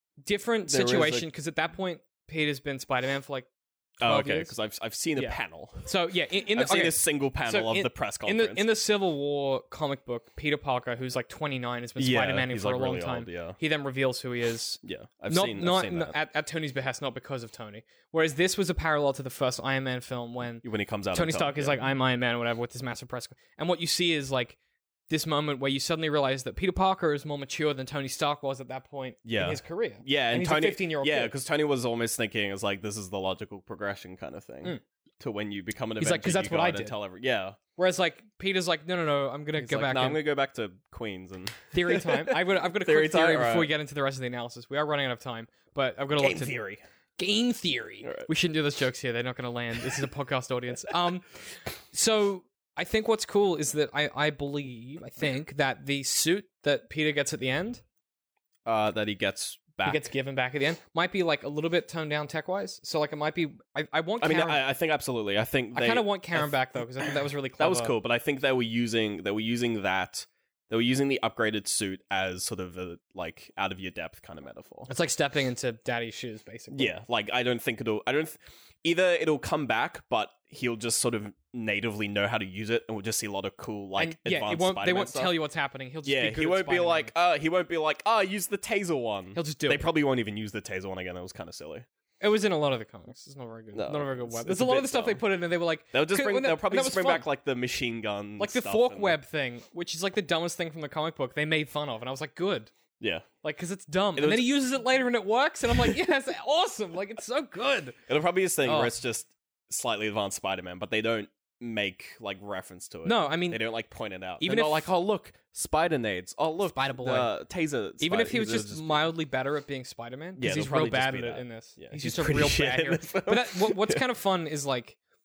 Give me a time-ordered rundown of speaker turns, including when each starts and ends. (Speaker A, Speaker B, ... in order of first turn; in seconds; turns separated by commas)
Speaker A: 0.2-3.5, Speaker B: 0.7-1.3, Speaker B: 4.0-5.9, Speaker A: 4.0-4.5, Speaker A: 5.2-24.6, Speaker B: 6.5-8.7, Speaker B: 12.0-13.6, Speaker B: 14.8-16.2, Speaker B: 20.6-21.8, Speaker A: 25.1-31.3, Speaker B: 29.2-37.6, Speaker A: 36.0-37.0, Speaker A: 37.8-40.2, Speaker B: 39.6-43.7, Speaker A: 41.7-46.6, Speaker B: 46.2-46.8, Speaker A: 47.2-51.4, Speaker B: 48.0-48.3, Speaker A: 51.9-57.8, Speaker B: 58.6-60.1, Speaker A: 59.8-64.6, Speaker B: 64.2-66.5, Speaker A: 65.7-68.0, Speaker B: 67.6-74.9, Speaker A: 74.9-77.0, Speaker B: 76.7-85.3, Speaker A: 84.0-87.1, Speaker B: 86.0-91.9, Speaker A: 89.3-89.9, Speaker A: 92.2-97.3, Speaker B: 93.7-95.2, Speaker B: 95.9-99.2, Speaker A: 98.4-102.7, Speaker B: 103.0-103.3, Speaker A: 103.4-108.0, Speaker B: 104.2-104.5, Speaker B: 108.1-119.1, Speaker A: 108.6-109.0, Speaker A: 113.0-113.6, Speaker A: 114.4-114.9, Speaker A: 116.7-117.3, Speaker A: 118.0-125.0, Speaker B: 120.4-124.0